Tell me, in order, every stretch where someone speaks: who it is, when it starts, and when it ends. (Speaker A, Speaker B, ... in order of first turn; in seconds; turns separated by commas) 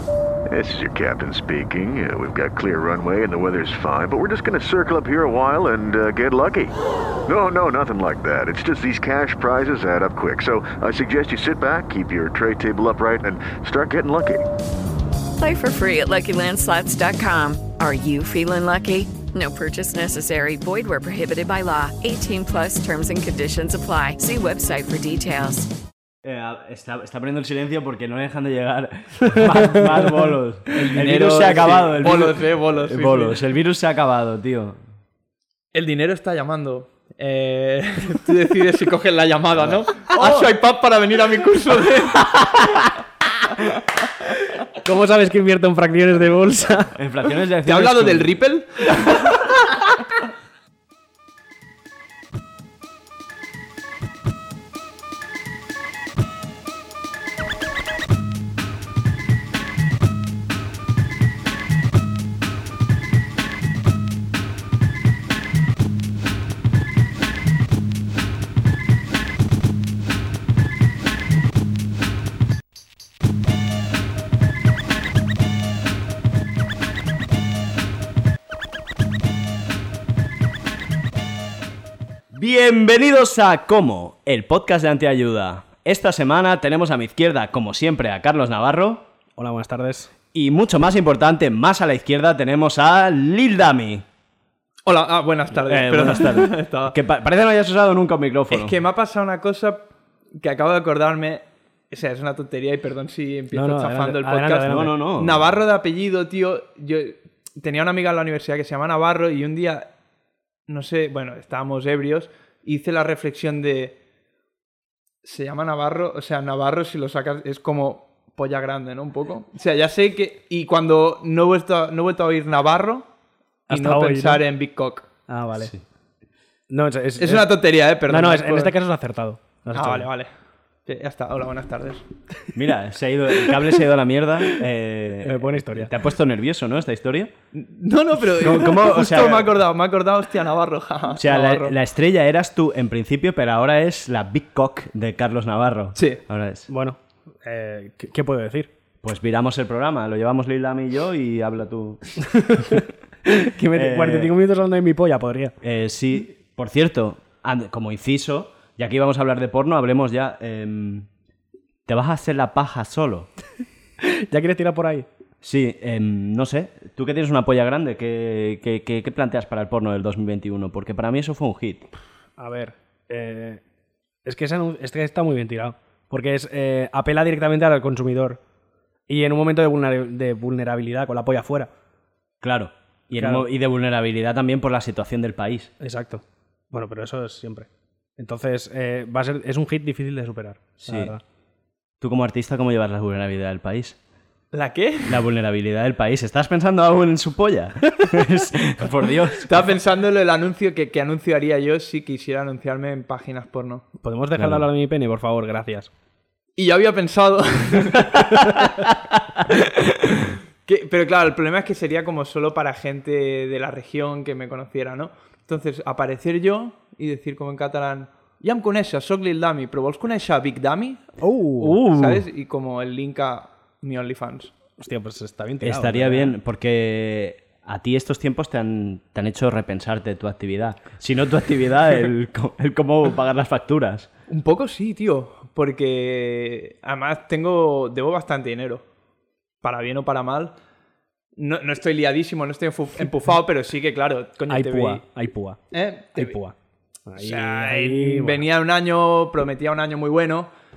Speaker A: 0.5-14.5, Speaker B: 15.4-25.7, Speaker C: 26.2-34.8, Speaker D: 29.4-29.9, Speaker E: 30.7-33.4, Speaker E: 35.7-42.7, Speaker C: 39.6-40.5, Speaker D: 44.8-47.0, Speaker C: 47.0-48.3, Speaker E: 47.6-49.5, Speaker C: 82.3-89.0, Speaker D: 89.4-90.1, Speaker C: 90.3-94.0, Speaker E: 94.9-97.0, Speaker C: 95.7-98.8, Speaker E: 98.5-109.9, Speaker D: 103.5-104.9, Speaker C: 104.7-105.5, Speaker E: 110.7-114.0, Speaker E: 115.2-123.1, Speaker D: 123.7-124.4, Speaker E: 123.7-125.1, Speaker D: 125.3-125.7, Speaker D: 126.7-127.5, Speaker E: 127.2-128.8, Speaker D: 128.1-130.1, Speaker E: 129.7-130.3, Speaker E: 130.9-132.1, Speaker C: 132.6-137.3, Speaker D: 135.2-135.9, Speaker E: 137.5-141.8, Speaker C: 138.4-139.5, Speaker C: 141.2-146.7, Speaker E: 145.9-146.2, Speaker D: 146.7-148.7, Speaker C: 149.0-152.2, Speaker D: 152.3-155.6, Speaker C: 153.7-154.3, Speaker C: 155.6-161.1, Speaker C: 161.9-163.3, Speaker D: 164.0-165.1, Speaker C: 165.4-171.9, Speaker D: 172.4-173.6, Speaker D: 174.2-178.4, Speaker D: 179.1-181.7, Speaker C: 182.4-185.7, Speaker D: 183.2-183.5, Speaker D: 185.8-191.2, Speaker C: 190.8-191.1, Speaker C: 192.0-194.0, Speaker E: 194.5-195.2, Speaker C: 195.1-199.5, Speaker E: 199.4-203.9, Speaker D: 204.0-205.9, Speaker C: 204.3-204.7, Speaker E: 206.6-208.6, Speaker E: 209.4-221.2, Speaker D: 221.2-221.8, Speaker C: 221.6-222.2, Speaker E: 221.8-224.5, Speaker D: 224.8-226.4, Speaker C: 225.6-234.1, Speaker E: 234.3-238.8, Speaker E: 239.6-240.6, Speaker E: 241.4-245.0, Speaker D: 244.5-245.6, Speaker E: 245.7-246.4, Speaker D: 246.2-246.6, Speaker D: 247.1-248.4, Speaker E: 247.2-250.5